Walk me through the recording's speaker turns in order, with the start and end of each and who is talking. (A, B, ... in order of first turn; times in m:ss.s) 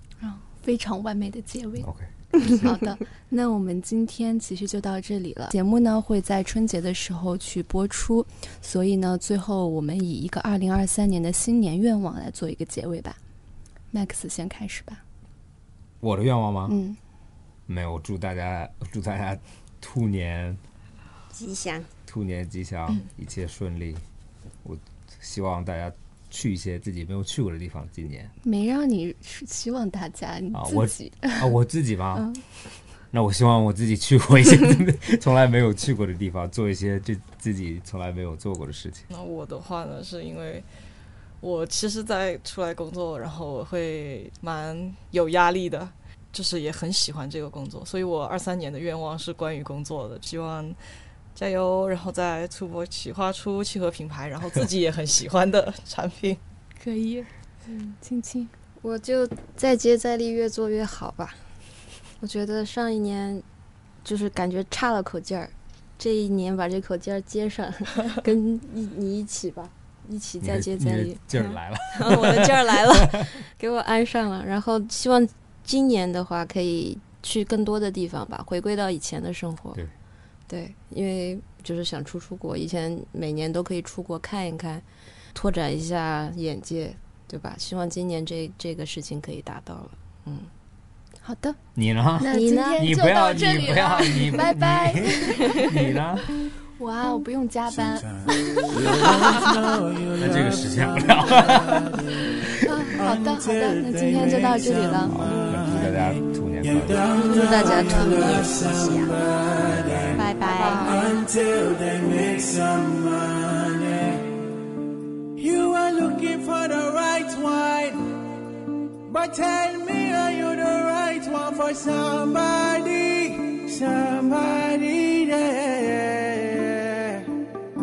0:00.2-0:01.9 A
0:01.8-0:02.8 B
0:02.4-0:13.2 A
0:13.9-0:15.0 A
0:16.0-0:16.8 B
0:16.7-0:17.0 A
0:17.7-0:20.6 B
0:21.3-0:21.9 C
0:22.1-0:24.0 B
0:24.6-0:28.3 B
0:28.4-0:31.5 A
0:30.5-0:32.3 B
0:32.2-0:32.4 A
0:33.1-0:39.0 B
0:39.1-0:40.7 D
0:41.4-0:50.8 D
0:51.4-0:56.4 D
0:56.8-0:57.3 A
0:57.7-0:58.0 C
0:58.0-0:58.5 A
0:58.8-1:01.5 C
1:02.2-1:03.4 C
1:04.0-1:19.8 C
1:10.4-1:13.4 B
1:20.5-1:30.5 C
1:31.2-1:31.6 A
1:31.8-1:36.3 B
1:32.2-1:35.8 A
1:32.3-1:32.9 C
1:36.8-1:38.6 A
1:37.8-1:54.5 E
1:38.9-1:39.2 B
1:40.2-1:42.5 B
1:42.6-1:45.2 A
1:45.1-1:47.2 B
1:47.1-1:49.2 C
1:49.6-1:50.3 B
1:50.2-1:51.2 C
1:50.5-1:51.2 D
1:55.4-1:58.2 E
1:59.0-2:07.4 E